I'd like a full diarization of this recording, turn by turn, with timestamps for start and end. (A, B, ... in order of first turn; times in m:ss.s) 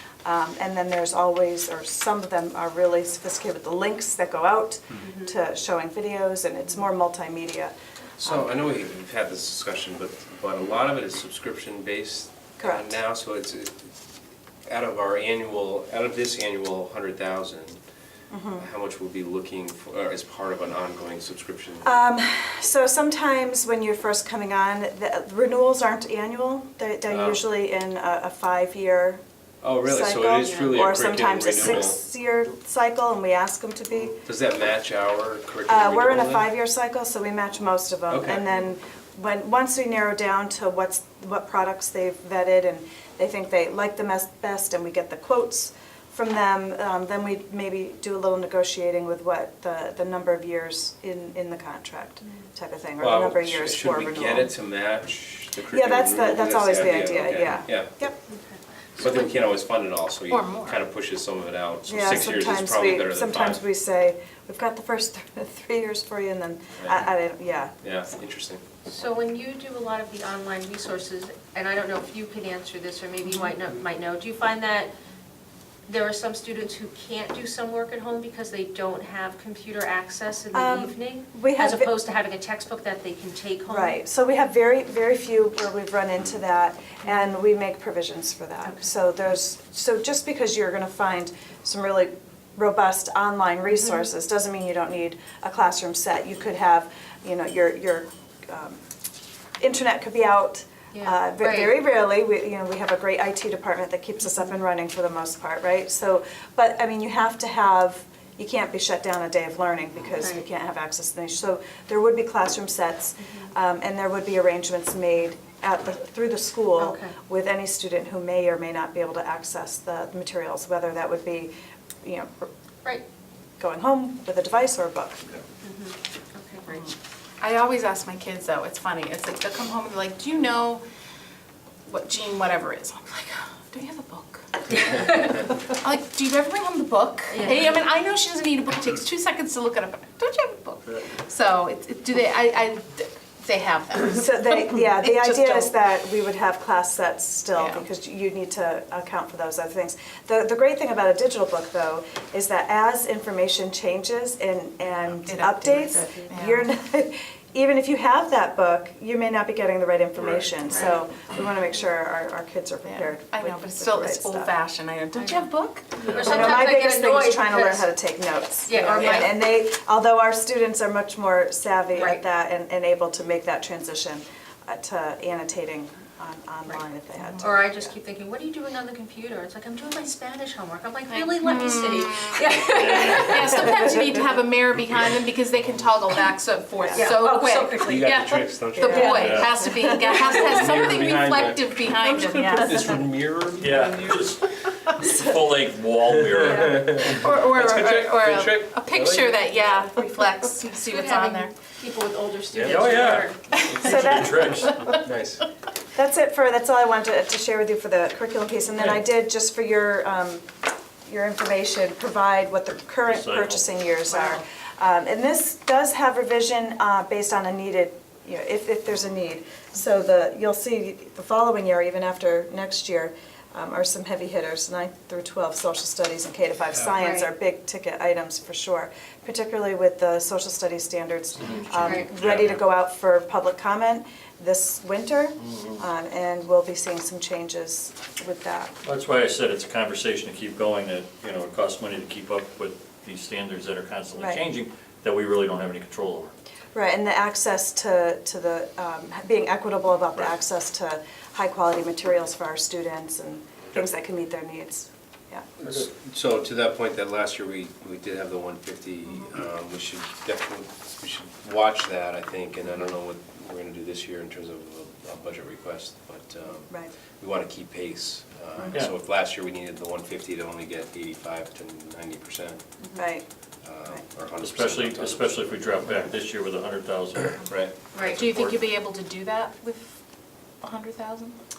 0:00.2-0:07.7 A
0:05.0-0:05.3 B
0:08.2-0:13.9 C
0:12.6-0:12.9 A
0:14.7-0:17.8 C
0:18.3-0:18.7 A
0:18.6-0:21.9 C
0:21.8-0:29.2 A
0:27.1-0:27.4 C
0:29.6-0:32.0 C
0:29.8-0:34.2 A
0:30.5-0:30.8 B
0:34.1-0:36.5 C
0:35.7-0:54.5 A
0:38.1-0:38.4 C
0:53.0-0:57.9 C
0:55.7-0:58.1 A
0:58.3-0:59.1 B
0:59.0-1:03.6 C
1:00.3-1:00.8 D
1:01.9-1:07.7 A
1:06.8-1:07.1 C
1:07.8-1:08.6 C
1:08.8-1:14.9 B
1:15.9-1:24.0 B
1:20.5-1:21.9 A
1:23.7-1:38.8 A
1:39.6-2:02.5 A
1:40.9-1:41.8 B
1:50.2-1:50.4 B
1:56.8-1:57.1 B
2:03.6-2:05.2 A
2:05.6-2:06.9 B
2:07.4-2:10.8 D
2:11.8-2:25.7 D
2:17.3-2:17.7 B
2:24.1-2:44.5 A
2:27.6-2:27.8 D
2:35.2-2:36.7 D
2:40.2-2:40.8 E
2:42.8-2:46.2 D
2:45.1-2:45.5 B
2:46.0-2:46.5 E
2:46.1-2:47.9 B
2:46.2-2:57.9 A
2:48.6-2:49.4 B
2:49.0-2:49.3 D
2:51.9-2:52.2 B
2:57.4-3:03.9 B
3:01.1-3:13.0 D
3:02.7-3:03.6 E
3:06.9-3:08.1 B
3:07.8-3:09.4 C
3:08.8-3:10.6 B
3:09.0-3:09.8 A
3:09.1-3:09.6 E
3:10.3-3:14.3 C
3:13.6-3:17.1 E
3:16.1-3:19.6 C
3:17.0-3:21.5 D
3:20.9-3:24.2 B
3:22.5-3:24.8 E
3:23.6-3:23.9 D
3:23.8-3:24.5 A
3:24.4-3:25.0 D
3:25.0-3:25.4 C
3:25.9-3:30.4 A
3:31.0-3:58.7 A
3:33.0-3:33.6 E
3:34.1-3:34.4 B
3:47.0-3:47.3 B
3:51.4-3:52.1 B
3:51.5-3:52.7 E
3:55.4-3:55.8 E
3:58.8-4:06.3 E
4:06.7-4:15.5 A
4:15.6-4:32.6 C
4:32.9-4:33.2 A
4:33.6-4:35.4 C
4:34.4-4:38.7 E
4:37.4-4:37.7 C
4:37.9-4:38.2 B
4:38.1-4:40.0 D
4:40.6-4:41.4 D